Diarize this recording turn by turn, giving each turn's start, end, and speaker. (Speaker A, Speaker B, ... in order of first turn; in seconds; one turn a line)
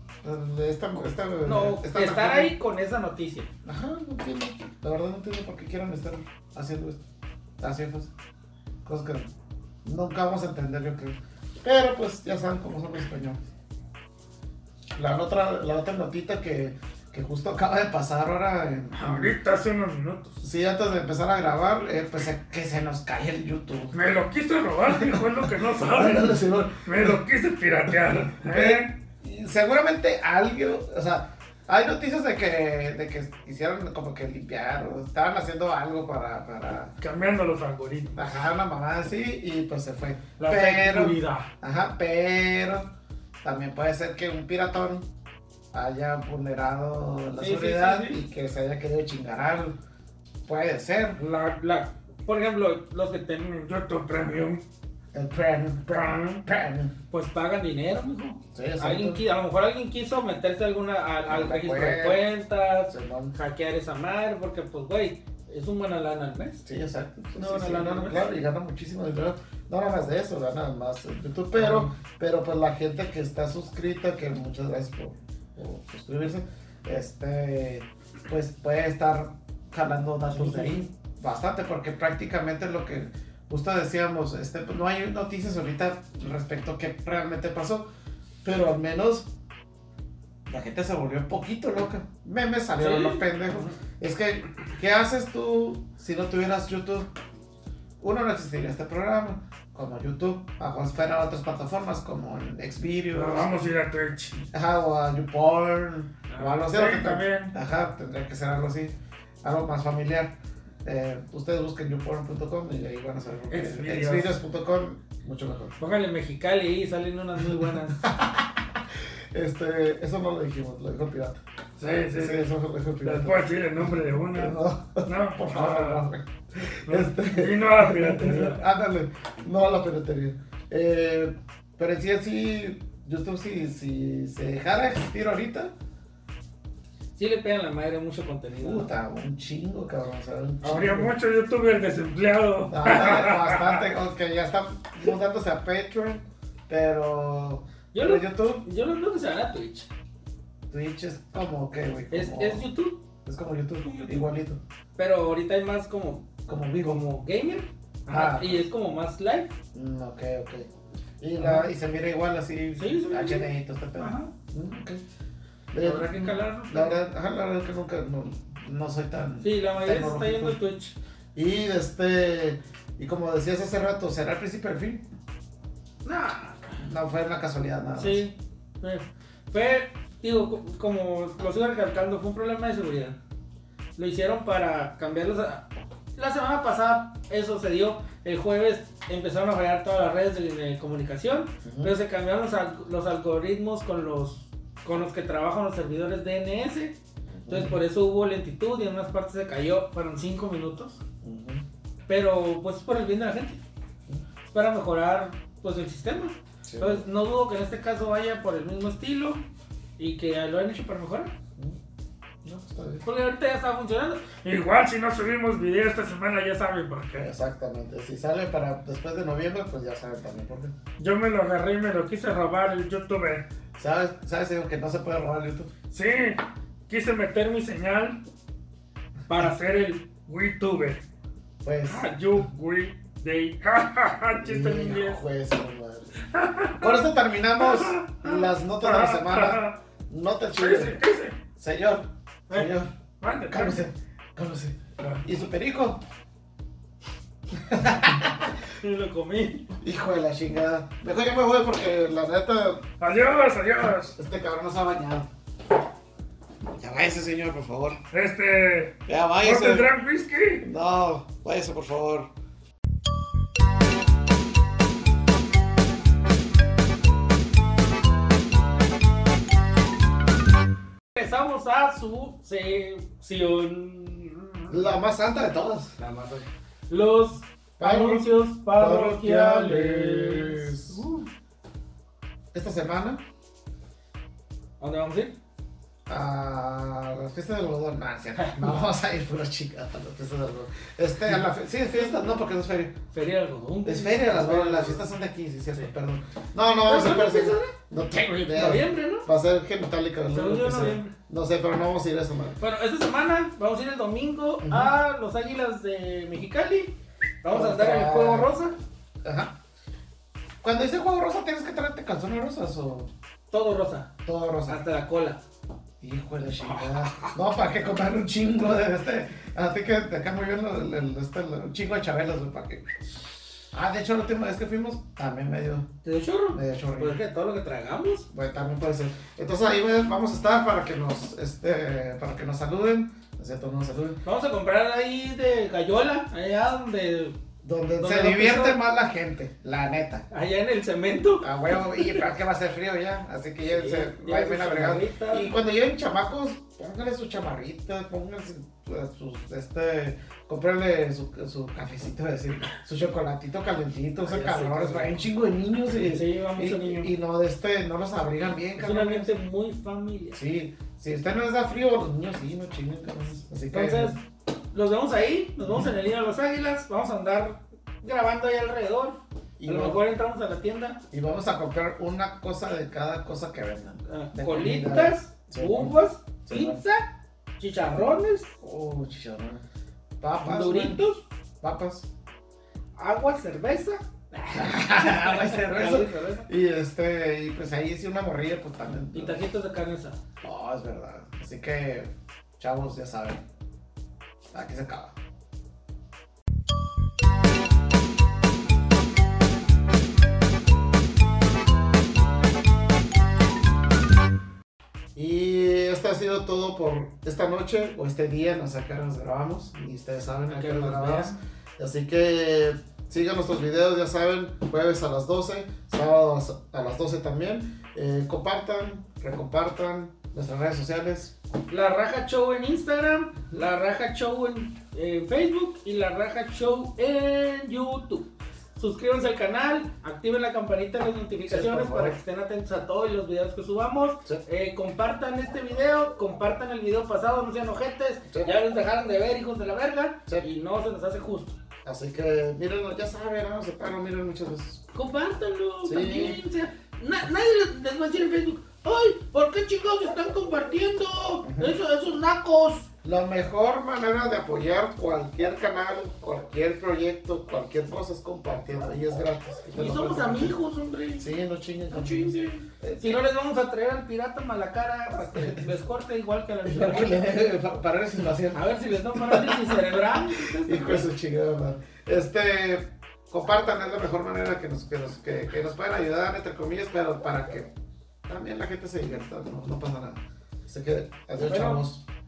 Speaker A: 0.2-2.5
Speaker B: 1.4-3.5
Speaker A: 3.6-7.0
Speaker A: 7.6-8.1
Speaker A: 8.8-9.3
Speaker A: 9.8-13.4
Speaker A: 14.9-19.4
Speaker C: 18.9-20.4
Speaker A: 20.4-23.9
Speaker C: 23.9-28.9
Speaker A: 24.9-25.2
Speaker A: 25.9-27.2
Speaker A: 28.4-36.9
Speaker C: 37.0-38.3
Speaker A: 38.1-42.9
Speaker B: 40.4-41.5
Speaker C: 40.5-41.2
Speaker A: 43.4-45.1
Speaker A: 45.7-49.8
Speaker B: 47.4-48.2
Speaker A: 50.5-51.2
Speaker B: 51.2-53.6
Speaker C: 53.6-54.6
Speaker A: 55.1-56.9
Speaker C: 55.9-56.4
Speaker B: 57.1-66.6
Speaker A: 58.5-59.2
Speaker A: 61.2-62.2
Speaker A: 62.9-63.3
Speaker A: 66.6-87.9
Speaker B: 67.3-68.3
Speaker B: 71.6-71.9
Speaker B: 80.3-80.8
Speaker A: 88.4-89.3
Speaker A: 90.5-97.1
Speaker B: 92.8-93.7
Speaker A: 98.0-103.6
Speaker C: 103.1-104.5
Speaker A: 104.5-110.3
Speaker C: 106.3-107.5
Speaker A: 110.8-115.8
Speaker C: 113.5-114.3
Speaker B: 115.8-118.0
Speaker A: 118.0-121.4
Speaker C: 121.8-122.4
Speaker A: 122.1-135.7
Speaker C: 123.0-126.1
Speaker C: 126.9-128.6
Speaker B: 137.2-138.9
Speaker A: 138.6-141.1
Speaker C: 140.6-143.8
Speaker A: 142.7-148.6
Speaker B: 147.9-149.9
Speaker A: 150.7-152.7
Speaker B: 152.1-153.0
Speaker A: 153.2-154.6
Speaker B: 153.8-154.2
Speaker B: 154.9-156.3
Speaker A: 156.5-157.0
Speaker B: 156.8-159.5
Speaker A: 158.1-158.7
Speaker A: 159.7-160.7
Speaker A: 161.2-165.0
Speaker B: 161.4-161.7
Speaker B: 162.8-164.3
Speaker A: 165.7-170.6
Speaker B: 165.8-167.0
Speaker B: 169.4-170.9
Speaker A: 171.3-175.1
Speaker B: 176.0-176.8
Speaker A: 176.8-178.2
Speaker B: 178.0-183.2
Speaker B: 183.9-197.0
Speaker A: 191.6-191.9
Speaker A: 197.3-197.8
Speaker B: 197.5-201.0
Speaker A: 201.2-201.6
Speaker B: 202.1-203.6
Speaker B: 204.5-209.4
Speaker A: 206.6-207.1
Speaker B: 210.0-211.3
Speaker A: 212.4-213.1
Speaker B: 213.0-214.3
Speaker C: 214.4-217.3
Speaker A: 217.2-220.7
Speaker C: 221.0-223.4
Speaker A: 223.8-225.7
Speaker C: 225.9-228.2
Speaker C: 229.3-231.0
Speaker A: 231.6-232.1
Speaker C: 231.9-235.2
Speaker A: 234.3-236.1
Speaker C: 236.3-237.0
Speaker A: 236.8-241.0
Speaker C: 237.6-239.8
Speaker C: 240.6-241.3
Speaker A: 241.6-242.9
Speaker C: 243.2-243.8
Speaker A: 243.5-246.0
Speaker A: 247.6-248.5
Speaker B: 248.8-249.7
Speaker A: 249.8-252.8
Speaker C: 253.0-254.1
Speaker A: 254.2-255.3
Speaker A: 256.8-258.0
Speaker C: 258.1-260.6
Speaker A: 259.1-259.9
Speaker A: 260.6-262.3
Speaker B: 271.1-274.9
Speaker A: 274.7-275.9
Speaker B: 276.0-281.3
Speaker A: 277.8-281.0
Speaker A: 282.5-283.2
Speaker B: 284.8-285.4
Speaker A: 286.1-293.0
Speaker B: 288.4-288.7
Speaker B: 293.1-295.1
Speaker A: 293.8-302.6
Speaker B: 296.8-297.7
Speaker B: 298.5-299.3
Speaker B: 300.3-301.1
Speaker B: 302.6-308.8
Speaker A: 304.6-304.9
Speaker A: 307.5-308.5
Speaker A: 309.2-309.5
Speaker A: 310.6-313.1
Speaker B: 313.5-314.1
Speaker A: 314.2-314.8
Speaker B: 314.7-315.4
Speaker A: 316.0-322.9
Speaker A: 323.7-325.9
Speaker B: 326.0-328.3
Speaker A: 326.5-327.2
Speaker A: 328.3-334.2
Speaker B: 334.2-337.4
Speaker A: 337.6-340.2
Speaker B: 338.0-338.8
Speaker B: 340.3-342.2
Speaker A: 341.4-359.3
Speaker B: 343.6-345.5
Speaker B: 354.2-355.2
Speaker B: 356.0-357.1
Speaker B: 358.8-360.4
Speaker A: 360.3-364.2
Speaker B: 363.7-364.2
Speaker B: 364.7-371.0
Speaker A: 365.6-365.9
Speaker A: 369.6-370.0
Speaker A: 371.1-376.8
Speaker B: 374.1-378.5
Speaker A: 378.6-379.6
Speaker A: 380.2-381.0
Speaker B: 380.4-381.2
Speaker A: 381.6-382.1
Speaker B: 383.0-386.5
Speaker A: 384.5-389.4
Speaker B: 389.1-390.2
Speaker A: 390.4-393.4
Speaker A: 394.5-395.1
Speaker A: 405.1-421.3
Speaker B: 410.5-411.4
Speaker B: 421.7-441.6
Speaker A: 431.5-432.2
Speaker A: 441.8-444.8
Speaker B: 444.9-452.9
Speaker A: 445.8-446.4
Speaker A: 451.4-451.8
Speaker A: 453.0-460.5
Speaker B: 459.8-461.3
Speaker A: 461.2-463.2
Speaker B: 461.9-467.3
Speaker A: 465.2-465.6
Speaker A: 466.6-468.6
Speaker B: 468.5-471.1
Speaker A: 469.1-477.7
Speaker A: 478.3-482.0
Speaker B: 481.4-481.8